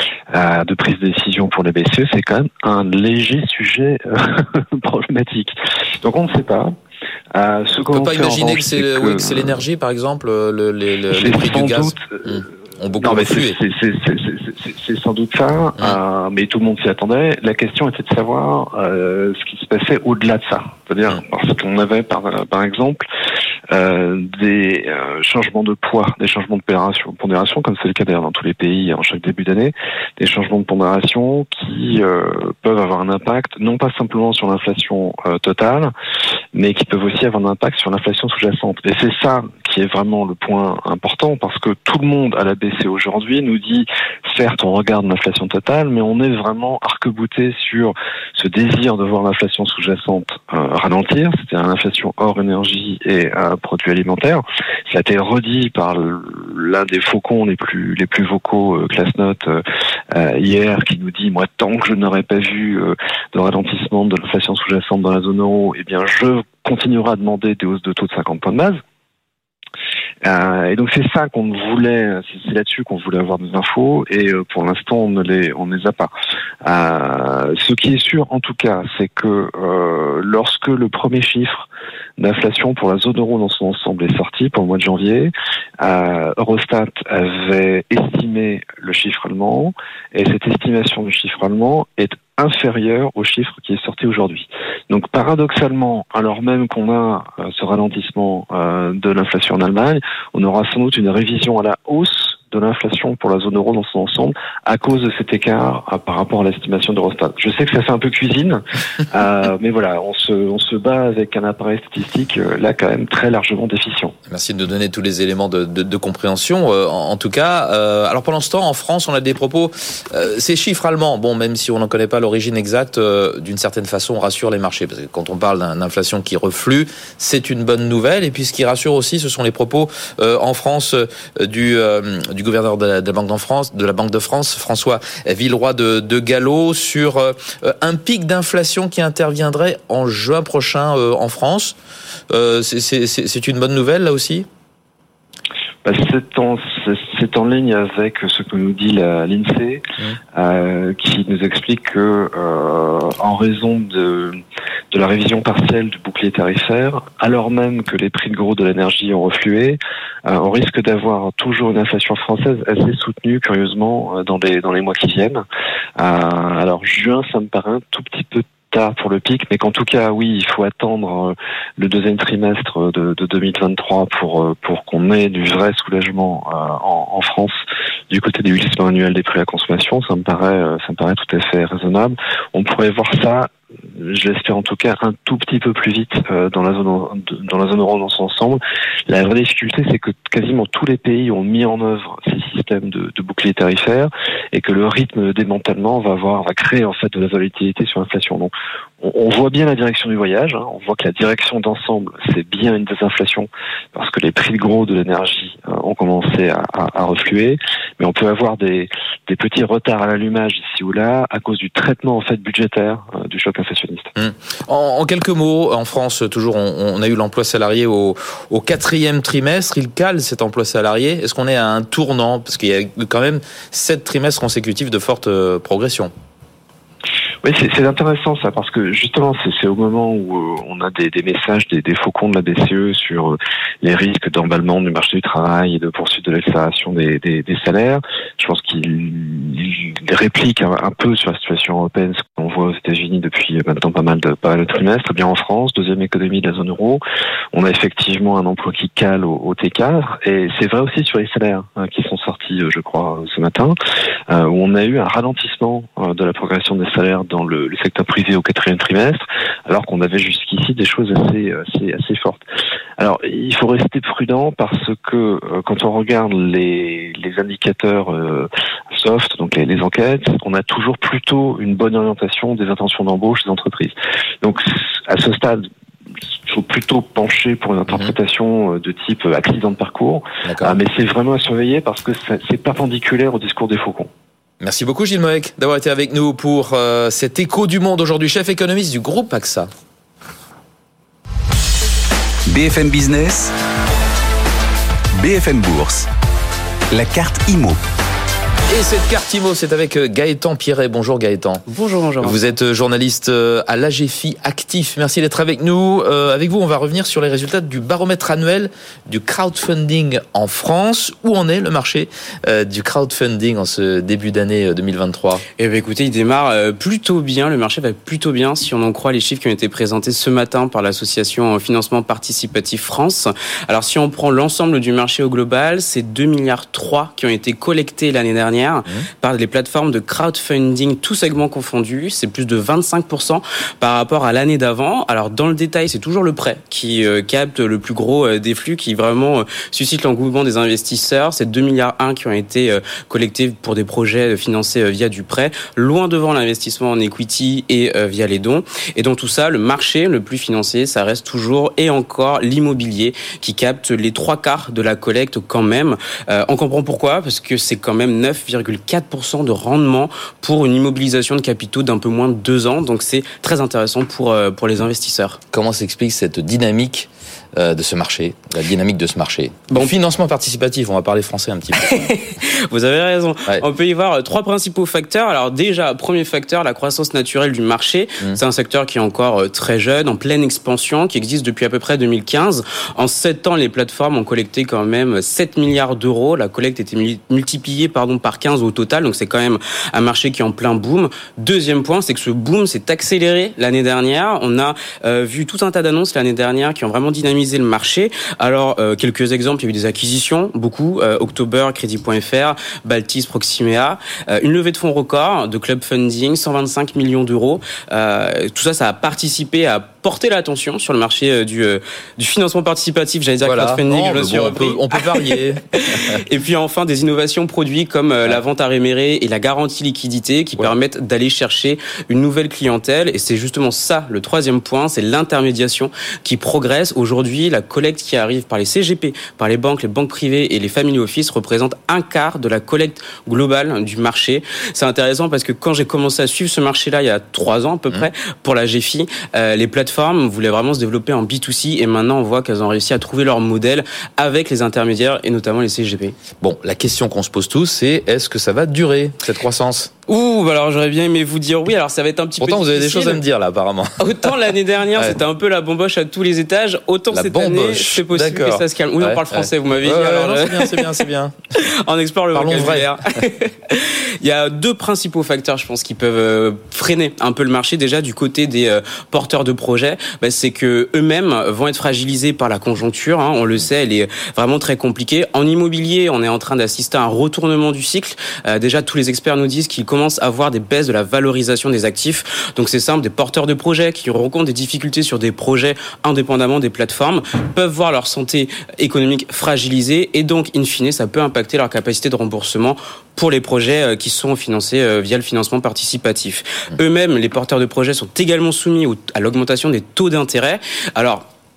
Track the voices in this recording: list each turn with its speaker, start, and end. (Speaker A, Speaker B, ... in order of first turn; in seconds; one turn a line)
Speaker A: 0.3-6.7
Speaker A: 7.3-9.6
Speaker B: 7.8-13.6
Speaker A: 11.1-23.1
Speaker A: 23.7-35.9
Speaker A: 36.5-68.8
Speaker A: 70.2-76.1
Speaker A: 76.6-81.7
Speaker A: 82.2-114.2
Speaker B: 114.3-141.8
Speaker B: 142.3-144.5
Speaker A: 145.8-149.8
Speaker A: 150.3-154.4
Speaker A: 154.9-165.4
Speaker A: 166.0-177.6
Speaker A: 178.1-214.1
Speaker B: 214.2-226.1
Speaker A: 227.4-247.0
Speaker A: 247.5-253.8
Speaker A: 254.3-262.4
Speaker A: 263.0-275.7
Speaker A: 276.5-284.1
Speaker B: 277.9-278.1
Speaker B: 280.5-280.8
Speaker B: 284.6-289.7
Speaker C: 292.5-293.5
Speaker C: 295.2-296.1
Speaker C: 296.9-297.8
Speaker B: 298.7-301.6
Speaker D: 301.7-302.4
Speaker B: 302.2-315.4
Speaker D: 315.6-365.4
Speaker B: 365.5-372.0
Speaker D: 371.8-446.2
Speaker B: 413.4-416.2
Speaker B: 446.4-449.9
Speaker D: 450.1-453.2
Speaker B: 452.4-454.4
Speaker D: 454.0-461.0
Speaker B: 457.1-461.4
Speaker D: 461.6-501.3
Speaker B: 462.3-462.9